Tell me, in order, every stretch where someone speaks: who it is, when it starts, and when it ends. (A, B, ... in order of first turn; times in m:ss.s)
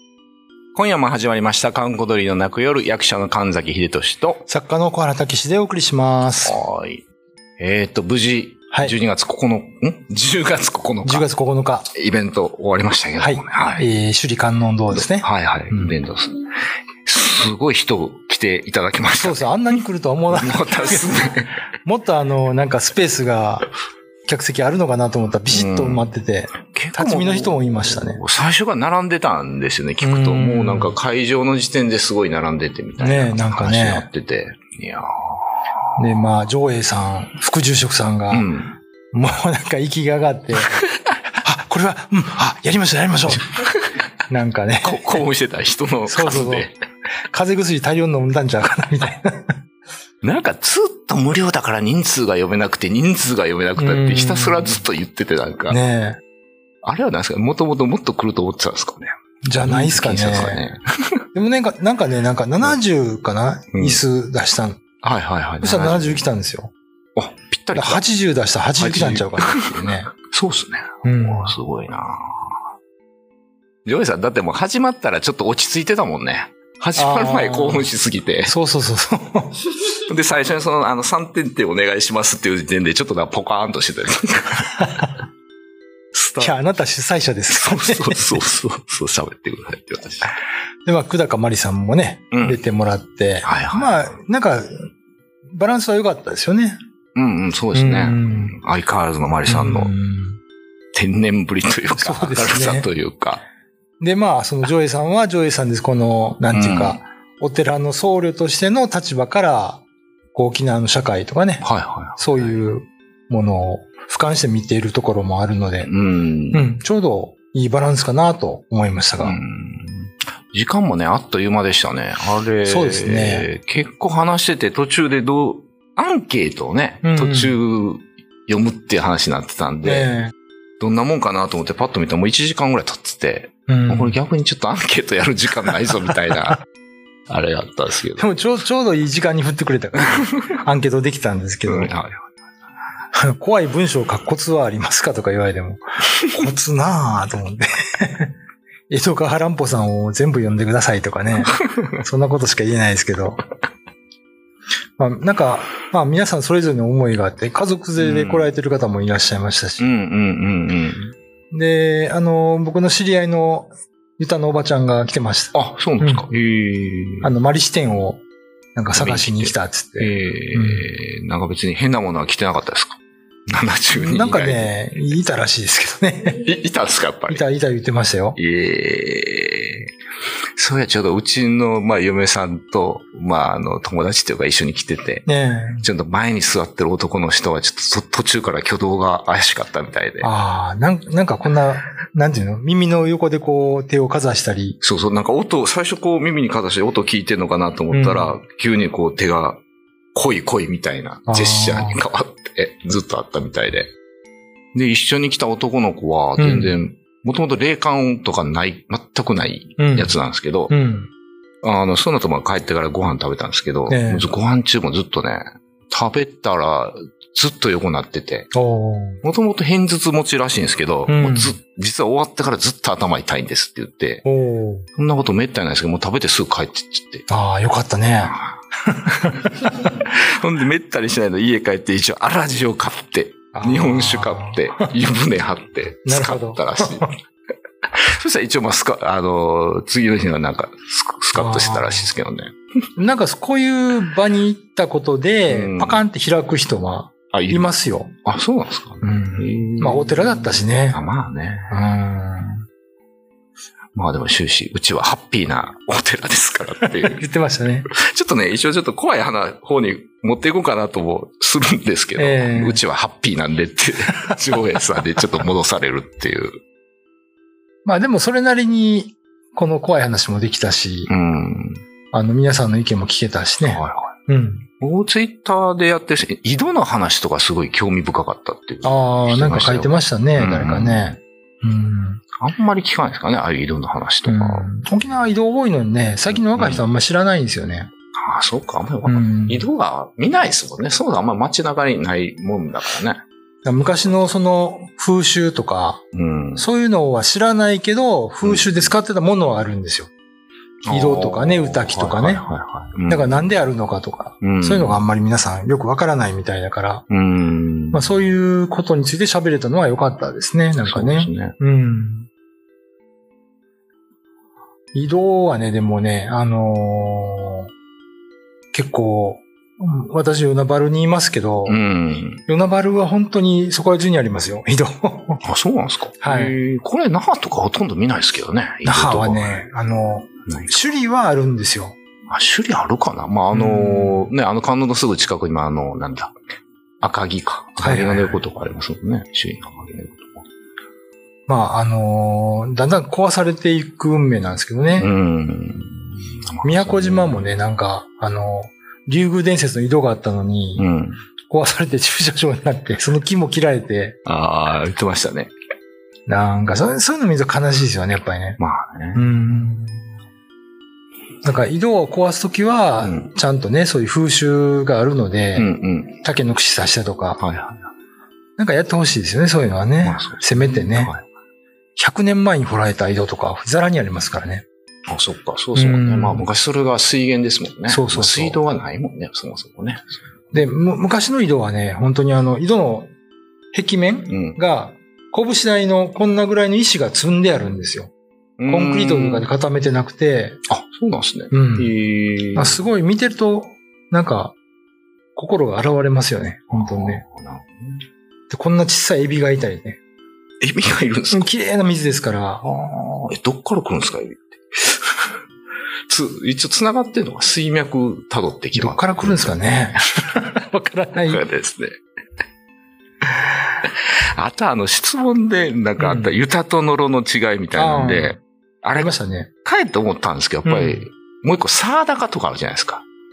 0:00.7-0:04.4 A
0:04.4-0:06.6 B
0:06.4-0:07.0 A
0:07.6-0:11.3 A
0:08.7-0:09.0 B
0:11.0-0:11.9 B
0:11.9-0:13.9 A
0:13.2-0:15.9 B
0:14.9-0:16.5 A
0:17.0-0:19.5 A
0:19.2-0:21.2 B
0:20.3-0:21.5 A
0:21.8-0:23.7 B
0:24.2-0:28.2 B
0:25.5-0:26.0 A
0:26.6-0:35.4 A
0:30.0-0:30.9 B
0:33.0-0:34.1 B
0:36.0-0:38.5 B
0:38.3-0:38.8 A
0:39.1-0:40.8 B
0:41.4-0:43.5 B
0:43.3-0:44.0 A
0:44.3-0:45.1 B
0:44.8-0:46.7 A
0:46.1-0:46.7 B
0:47.3-0:49.6 B
0:50.2-0:55.8 A
0:53.8-0:54.8 B
0:55.7-0:56.2 B
0:56.8-0:59.1 A
0:59.4-1:00.6 B
0:59.6-1:01.2 A
1:01.3-1:04.8 B
1:03.7-1:04.0 A
1:05.0-1:06.2 A
1:05.6-1:06.7 B
1:07.2-1:08.0 A
1:07.7-1:10.1 B
1:08.8-1:12.6 A
1:11.0-1:11.5 B
1:13.8-1:18.5 A
1:17.0-1:17.9 B
1:18.4-1:19.7 B
1:20.1-1:24.9 A
1:26.1-1:26.6 A
1:26.4-1:28.4 B
1:27.5-1:30.3 A
1:30.8-1:34.9 B
1:32.3-1:32.6 A
1:33.4-1:34.0 A
1:35.5-1:36.8 B
1:37.1-1:39.9 A
1:37.7-1:38.6 B
1:39.4-1:40.4 B
1:40.9-1:43.4 A
1:41.9-1:42.9 B
1:44.0-1:55.9 B
1:46.5-1:47.0 A
1:51.6-1:52.5 A
1:55.8-1:56.6 A
1:56.5-1:59.4 B
1:59.2-2:10.1 A
2:02.6-2:03.5 B
2:07.0-2:07.6 B
2:09.8-2:10.3 B
2:10.8-2:16.6 A
2:13.7-2:14.2 B
2:17.3-2:18.2 A
2:18.2-2:21.9 B
2:21.6-2:22.3 A
2:23.1-2:28.3 B
2:28.9-2:33.4 B
2:31.4-2:31.7 A
2:35.0-2:39.9 B
2:38.0-2:38.5 A
2:39.8-2:41.1 A
2:41.5-2:46.2 B
2:45.5-2:47.3 A
2:47.2-2:48.2 B
2:48.7-2:50.9 B
2:48.9-2:54.7 A
2:53.9-2:56.4 B
2:56.4-2:57.4 A
2:57.3-2:58.4 B
2:58.4-2:59.9 A
3:00.6-3:05.2 A
3:05.2-3:05.8 B
3:05.8-3:10.3 A
3:10.2-3:14.8 B
3:14.8-3:19.6 A
3:17.9-3:18.4 B
3:20.1-3:23.9 A
3:21.3-3:22.0 B
3:24.7-3:30.7 A
3:26.4-3:26.8 B
3:29.8-3:30.2 B
3:30.7-3:31.1 B
3:31.6-3:38.5 A
3:33.9-3:34.3 B
3:38.5-3:39.2 B
3:39.2-3:44.2 A
3:41.1-3:41.6 B
3:44.2-3:44.9 B
3:45.0-3:47.3 A
3:47.3-3:48.3 B
3:48.8-3:49.9 B
3:49.2-3:57.1 A
3:53.5-3:54.9 B
3:56.0-3:57.1 B
3:57.8-4:02.5 A
4:01.3-4:02.1 B
4:03.0-4:08.1 B
4:05.5-4:06.0 A
4:07.3-4:11.8 A
4:09.0-4:11.0 B
4:11.7-4:12.6 B
4:13.9-4:17.2 A
4:16.9-4:17.9 B
4:17.9-4:26.6 A
4:22.2-4:22.8 B
4:27.8-4:31.1 B
4:31.1-4:31.8 A
4:32.1-4:34.7 B
4:33.6-4:34.1 A
4:34.8-4:41.2 A
4:38.8-4:42.2 B
4:42.4-4:44.7 A
4:44.2-4:47.9 B
4:46.3-4:46.8 A
4:48.1-4:53.2 A
4:49.0-4:49.7 B
4:53.6-4:56.0 B
4:56.1-4:56.7 A
4:56.6-5:00.1 B
4:58.4-4:58.9 A
5:00.8-5:03.4 A
5:00.9-5:02.4 B
5:03.1-5:07.0 B
5:04.4-5:05.0 A
5:07.1-5:08.2 A
5:07.9-5:12.3 B
5:10.8-5:11.5 A
5:14.9-5:17.7 B
5:18.7-5:21.8 B
5:21.7-5:22.4 A
5:22.4-5:25.4 B
5:25.4-5:29.6 A
5:26.2-5:26.6 B
5:28.8-5:32.0 B
5:30.5-5:30.8 A
5:32.3-5:36.3 A
5:33.5-5:34.3 B
5:37.0-5:40.4 A
5:37.8-5:38.4 B
5:41.5-5:45.1 B
5:45.0-5:47.6 A
5:46.6-5:50.9 B
5:50.8-5:51.2 A
5:51.5-5:54.2 B
5:54.2-5:55.5 A
5:56.2-5:58.6 B
5:58.6-5:59.3 A
5:59.1-6:00.0 B
6:01.4-6:07.4 B
6:03.0-6:03.3 A
6:05.5-6:06.2 A
6:07.4-6:07.9 A
6:08.6-6:11.1 B
6:10.0-6:11.2 A
6:12.0-6:14.6 B
6:15.1-6:20.1 A
6:15.7-6:16.5 B
6:17.9-6:18.6 B
6:20.5-6:23.1 B
6:23.7-6:28.1 B
6:24.3-6:24.6 A
6:28.6-6:29.5 A
6:28.6-6:30.6 B
6:30.7-6:32.8 A
6:31.5-6:32.0 B
6:32.5-6:34.5 B
6:35.4-6:37.2 B
6:36.7-6:38.0 A
6:38.5-6:40.0 B
6:40.6-6:41.5 A
6:41.3-6:42.6 B
6:42.6-6:45.0 A
6:46.1-6:49.6 A
6:48.7-6:51.4 B
6:51.2-6:52.0 A
6:53.8-7:03.0 A
6:56.0-6:56.3 B
6:57.7-6:58.4 B
6:58.9-6:59.5 B
7:00.6-7:01.0 B